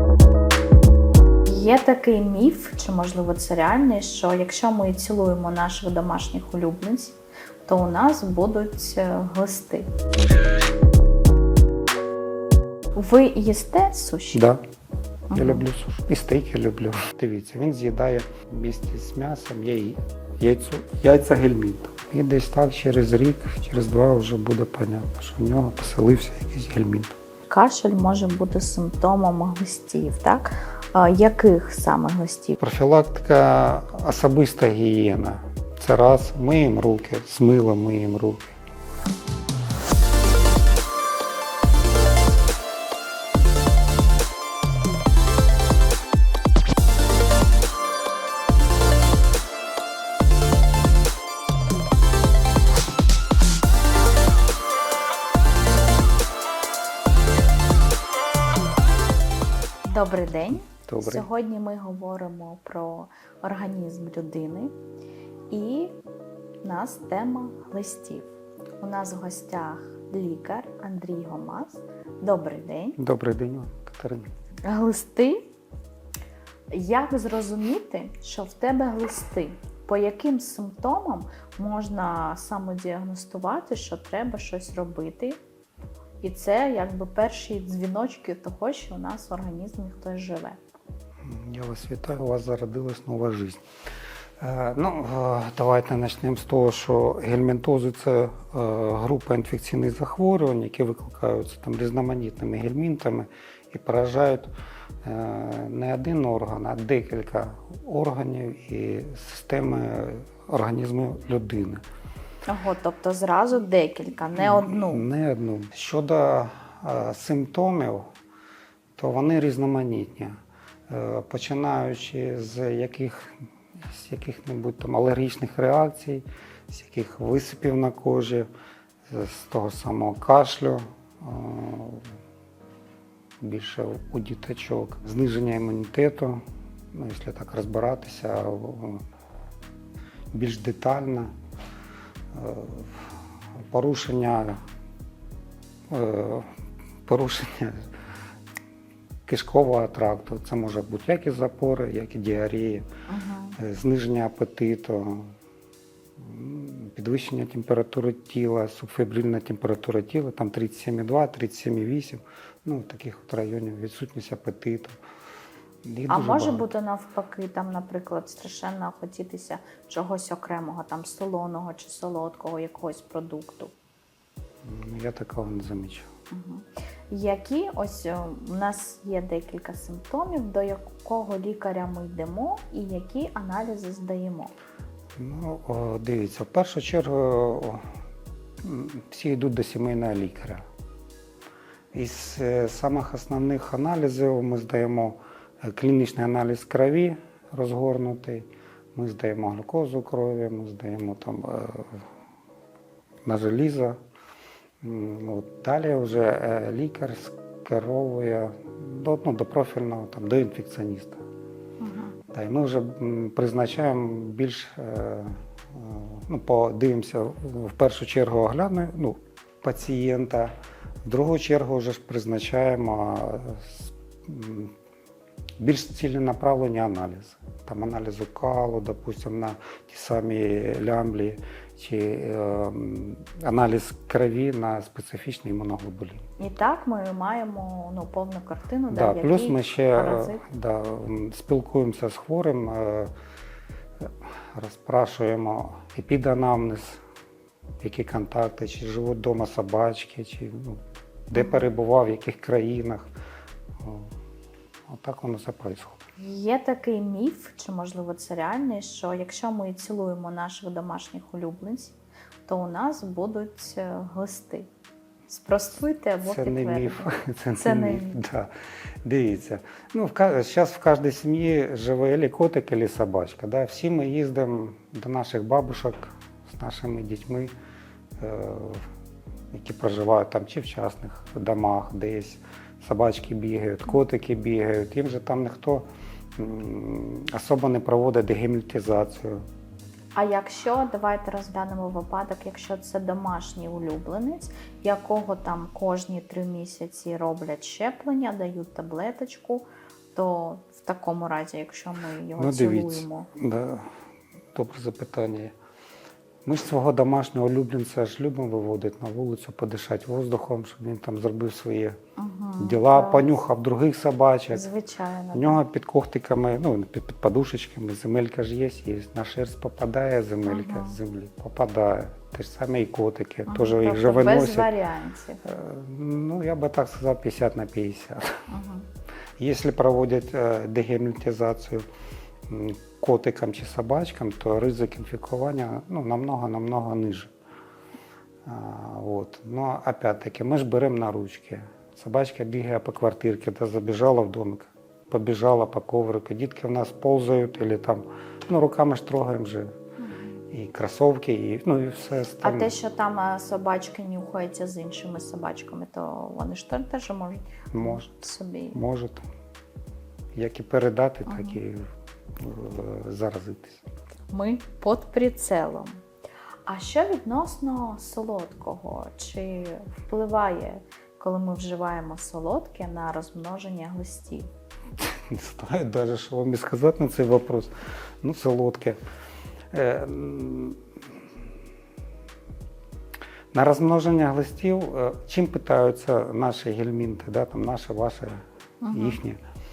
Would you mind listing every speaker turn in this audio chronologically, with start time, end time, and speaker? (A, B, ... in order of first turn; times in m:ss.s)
0:01.5-0:09.9 A
0:13.0-0:14.4 A
0:14.3-0:14.6 B
0:15.3-0:15.7 A
0:15.3-0:27.2 B
0:27.5-0:32.6 A
0:32.6-0:38.5 B
0:59.8-1:04.7 A
1:00.7-1:01.3 B
1:05.5-1:05.9 A
1:06.6-1:13.0 A
1:13.0-1:14.3 B
1:14.6-1:15.5 A
1:16.7-1:25.4 A
1:26.2-1:30.6 A
1:31.2-1:33.6 B
1:34.4-1:44.5 B
1:45.0-1:51.8 B
1:52.5-1:55.0 A
1:54.4-1:58.1 B
1:59.0-2:00.4 B
2:00.9-2:08.5 B
2:09.1-2:12.1 B
2:13.4-2:19.0 B
2:20.3-2:21.3 B
2:22.3-2:23.1 B
2:23.7-2:24.6 B
2:25.9-2:26.5 B
2:27.1-2:27.9 B
2:29.3-2:32.9 B
2:33.1-2:33.6 A
2:33.6-2:35.4 B
2:36.2-2:45.0 B
2:45.8-2:46.7 B
2:46.1-2:53.7 A
2:54.6-2:56.1 B
2:56.3-3:04.5 A
3:05.2-3:07.9 B
3:08.6-3:10.6 B
3:11.9-3:22.0 B
3:23.3-3:24.0 B
3:24.8-3:31.2 B
3:31.8-3:32.2 A
3:32.3-3:40.5 B
3:41.0-3:44.8 B
3:45.6-3:56.2 B
3:56.4-4:00.4 A
3:58.9-4:03.1 B
4:04.0-4:07.0 B
4:07.8-4:13.1 B
4:11.4-4:11.6 A
4:13.8-4:14.1 B
4:14.9-4:16.0 B
4:16.2-4:24.7 A
4:25.3-4:28.2 A
4:26.2-4:28.5 B
4:29.0-4:37.5 B
4:38.2-4:38.9 B
4:39.5-4:45.8 B
4:46.4-4:49.4 B
4:50.2-5:03.3 A
5:02.4-5:04.0 B
5:04.6-5:05.5 B
5:06.5-5:12.0 B
5:12.2-5:13.4 A
5:12.6-5:14.6 B
5:14.5-5:15.6 A
5:15.3-5:24.7 B
5:20.4-5:21.0 A
5:23.5-5:25.4 A
5:25.4-5:28.5 B
5:28.5-5:28.9 A
5:29.4-5:31.8 B
5:32.5-5:37.3 B
5:38.5-5:49.8 B
5:50.0-5:50.3 A
5:50.5-5:52.7 B
5:52.4-5:58.8 A
5:57.7-5:58.1 B
5:58.7-5:59.2 B
6:00.4-6:03.8 B
6:01.3-6:01.6 A
6:04.3-6:06.0 A
6:06.7-6:14.5 A
6:15.0-6:19.0 B
6:19.7-6:20.8 B
6:23.5-6:29.4 B
6:28.8-6:29.2 A